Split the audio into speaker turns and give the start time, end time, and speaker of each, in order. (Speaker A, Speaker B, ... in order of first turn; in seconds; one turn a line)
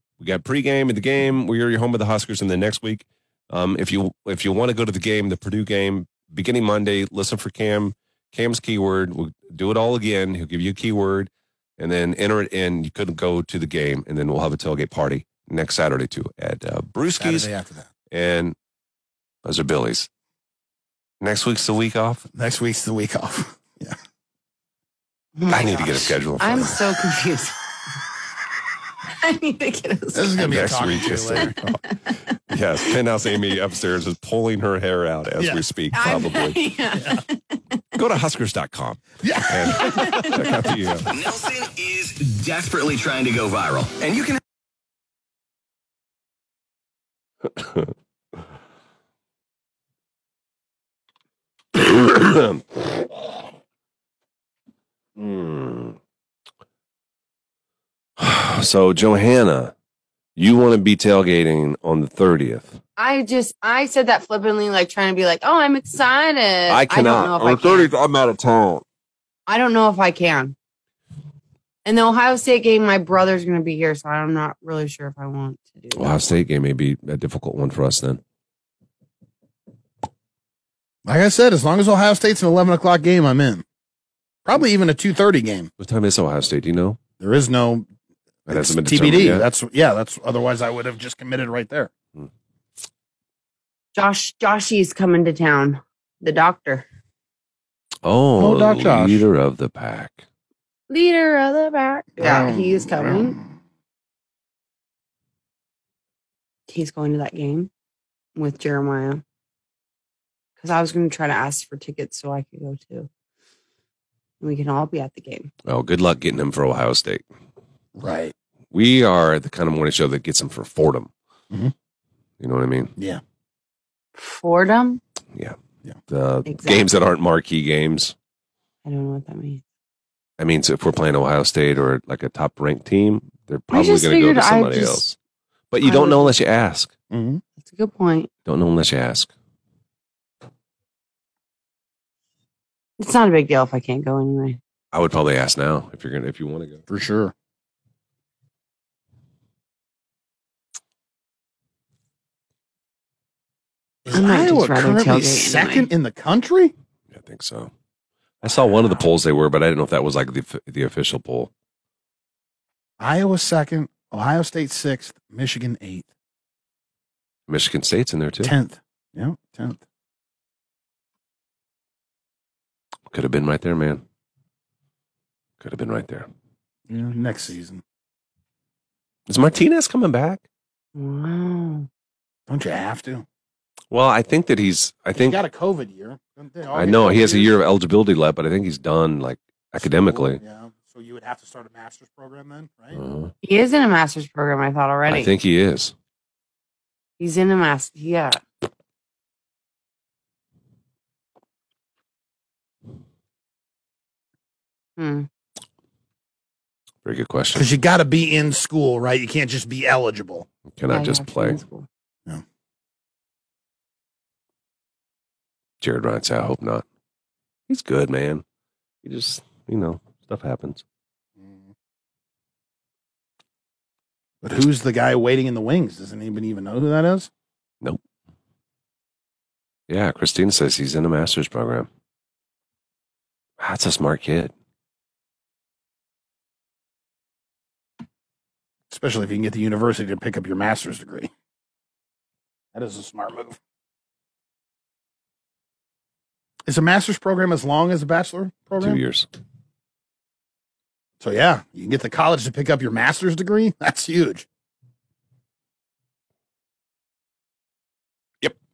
Speaker A: 0.2-17.5
Speaker B: 17.2-17.9
Speaker A: 18.1-18.6
Speaker A: 19.4-20.1
Speaker A: 21.2-22.3
Speaker B: 22.3-24.0
Speaker C: 25.4-27.6
Speaker A: 25.5-26.8
Speaker C: 29.2-30.5
Speaker B: 30.1-31.6
Speaker A: 30.4-31.8
Speaker C: 31.4-32.1
Speaker A: 32.5-36.6
Speaker C: 35.9-37.6
Speaker B: 37.0-37.2
Speaker A: 38.0-41.1
Speaker B: 39.2-40.4
Speaker C: 39.8-40.4
Speaker D: 41.1-44.4
Speaker A: 47.5-47.9
Speaker A: 51.7-52.9
Speaker A: 55.2-56.0
Speaker A: 58.2-59.7
Speaker A: 60.4-62.8
Speaker C: 63.0-67.9
Speaker A: 66.7-68.8
Speaker C: 69.5-70.5
Speaker C: 71.8-76.2
Speaker A: 75.9-78.2
Speaker B: 81.0-83.6
Speaker B: 84.5-85.7
Speaker A: 85.8-87.0
Speaker B: 87.2-87.9
Speaker A: 88.5-89.5
Speaker B: 88.5-91.9
Speaker C: 93.9-96.8
Speaker A: 98.0-100.2
Speaker B: 98.4-99.2
Speaker C: 100.9-103.4
Speaker B: 102.2-103.4
Speaker C: 106.7-107.7
Speaker C: 108.3-109.2
Speaker C: 110.6-113.1
Speaker C: 114.4-115.5
Speaker A: 115.6-117.2
Speaker B: 118.0-118.3
Speaker A: 118.7-121.1
Speaker A: 122.4-122.9
Speaker C: 124.1-125.0
Speaker A: 126.1-128.2
Speaker C: 126.5-126.9
Speaker C: 128.8-129.6
Speaker A: 130.4-135.2
Speaker C: 133.7-135.0
Speaker A: 135.7-136.9
Speaker C: 135.8-136.3
Speaker B: 137.1-137.4
Speaker C: 137.6-138.3
Speaker A: 138.4-139.3
Speaker C: 143.0-144.6
Speaker A: 144.9-146.8
Speaker B: 146.9-147.3
Speaker B: 154.1-156.7
Speaker C: 154.1-155.9
Speaker A: 157.1-157.7
Speaker A: 158.4-161.5
Speaker B: 158.4-159.0
Speaker B: 163.0-166.1
Speaker A: 167.5-168.5
Speaker B: 168.4-169.8
Speaker A: 173.1-174.0
Speaker A: 175.6-176.3
Speaker B: 176.9-177.8
Speaker A: 179.3-180.4
Speaker C: 180.9-181.9
Speaker B: 182.5-183.2
Speaker A: 183.9-185.4
Speaker B: 185.1-187.6
Speaker A: 186.7-190.4
Speaker B: 189.9-193.0
Speaker A: 192.9-193.3
Speaker C: 193.4-195.3
Speaker A: 195.1-195.9
Speaker C: 197.2-198.4
Speaker C: 205.0-205.3
Speaker A: 207.0-207.7
Speaker B: 207.5-210.5
Speaker A: 210.7-211.6
Speaker C: 210.9-211.9
Speaker A: 215.8-216.8
Speaker A: 217.7-218.4
Speaker A: 219.0-220.8
Speaker B: 221.4-221.7
Speaker B: 224.4-227.3
Speaker A: 229.9-231.9
Speaker A: 233.6-234.5
Speaker B: 238.9-241.3
Speaker B: 242.7-243.6
Speaker B: 246.7-249.0
Speaker A: 248.8-249.3
Speaker B: 251.2-254.4